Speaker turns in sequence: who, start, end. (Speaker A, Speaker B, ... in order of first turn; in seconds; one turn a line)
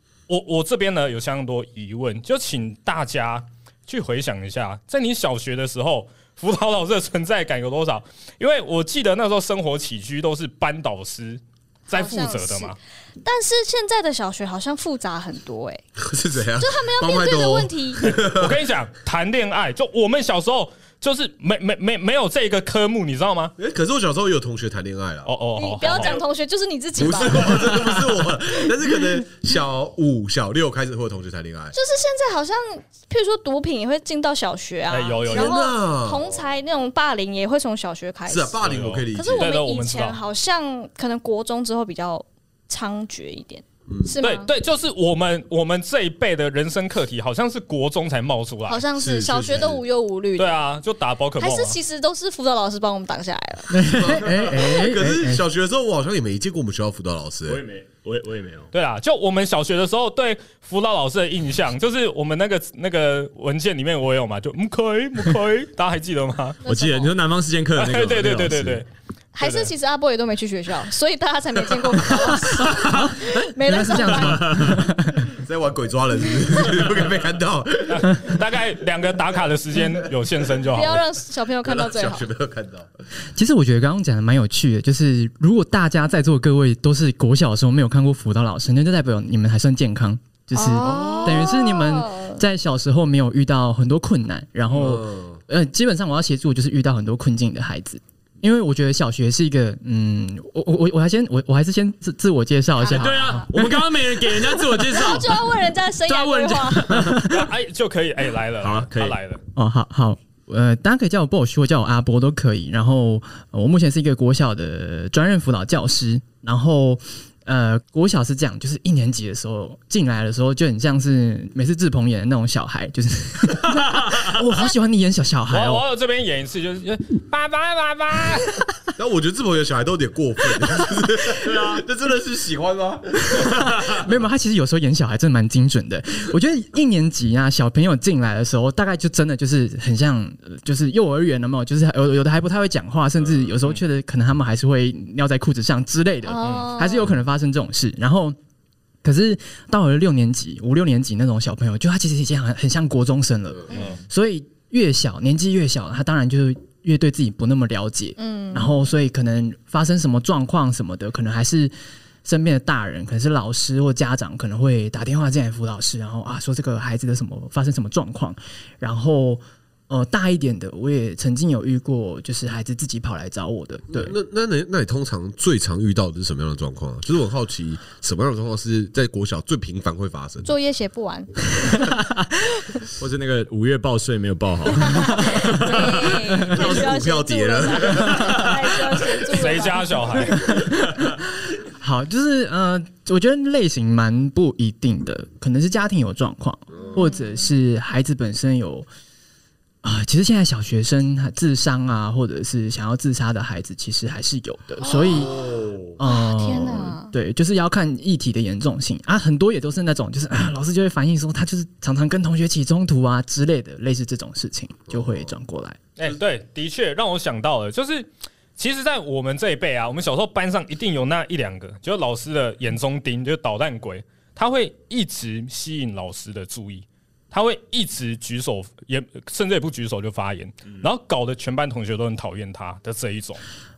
Speaker A: 0.3-12.8
Speaker B: 11.9-15.8
Speaker C: 16.0-18.6
Speaker B: 16.6-18.1
Speaker A: 18.0-23.5
Speaker C: 23.6-25.3
Speaker A: 25.2-26.2
Speaker B: 25.6-27.8
Speaker C: 25.9-26.2
Speaker C: 27.0-31.7
Speaker B: 31.7-44.5
Speaker A: 34.9-35.7
Speaker C: 35.3-36.3
Speaker C: 38.3-39.5
Speaker A: 38.6-40.2
Speaker C: 43.9-44.1
Speaker A: 44.2-48.9
Speaker B: 48.7-50.6
Speaker C: 49.0-49.8
Speaker A: 50.4-51.8
Speaker B: 51.4-53.8
Speaker D: 53.7-55.5
Speaker C: 53.8-57.6
Speaker E: 57.5-58.7
Speaker A: 58.7-66.6
Speaker B: 66.6-67.2
Speaker E: 66.7-68.8
Speaker A: 67.8-68.9
Speaker B: 69.3-74.6
Speaker A: 69.4-69.7
Speaker D: 72.8-75.3
Speaker E: 74.3-74.8
Speaker C: 75.3-78.2
Speaker A: 77.9-81.0
Speaker B: 80.6-82.3
Speaker C: 81.6-82.9
Speaker D: 83.3-104.1
Speaker B: 90.5-92.4
Speaker C: 90.8-91.5
Speaker C: 94.7-95.4
Speaker B: 102.8-103.5
Speaker E: 102.9-107.3
Speaker B: 104.7-107.0
Speaker D: 106.9-107.5
Speaker A: 107.2-109.4
Speaker E: 108.6-109.2
Speaker D: 109.5-125.8
Speaker A: 125.5-128.6
Speaker C: 128.9-134.0
Speaker E: 131.4-131.8
Speaker D: 133.4-148.4
Speaker B: 146.3-147.1
Speaker A: 146.4-146.7
Speaker D: 149.0-161.7
Speaker B: 153.7-154.0
Speaker B: 158.2-158.8
Speaker D: 162.2-174.2
Speaker C: 173.9-180.5
Speaker B: 180.4-181.8
Speaker D: 181.8-182.2
Speaker E: 183.0-186.6
Speaker B: 184.8-190.3
Speaker C: 186.4-189.1
Speaker A: 189.2-190.4
Speaker D: 190.3-191.0
Speaker D: 191.6-198.9
Speaker C: 196.7-197.0
Speaker B: 196.8-197.5
Speaker D: 199.8-205.4
Speaker B: 204.8-205.4
Speaker C: 205.1-205.6
Speaker E: 205.3-205.9
Speaker D: 206.0-215.8
Speaker B: 206.0-207.1
Speaker C: 214.9-215.3
Speaker A: 216.0-233.4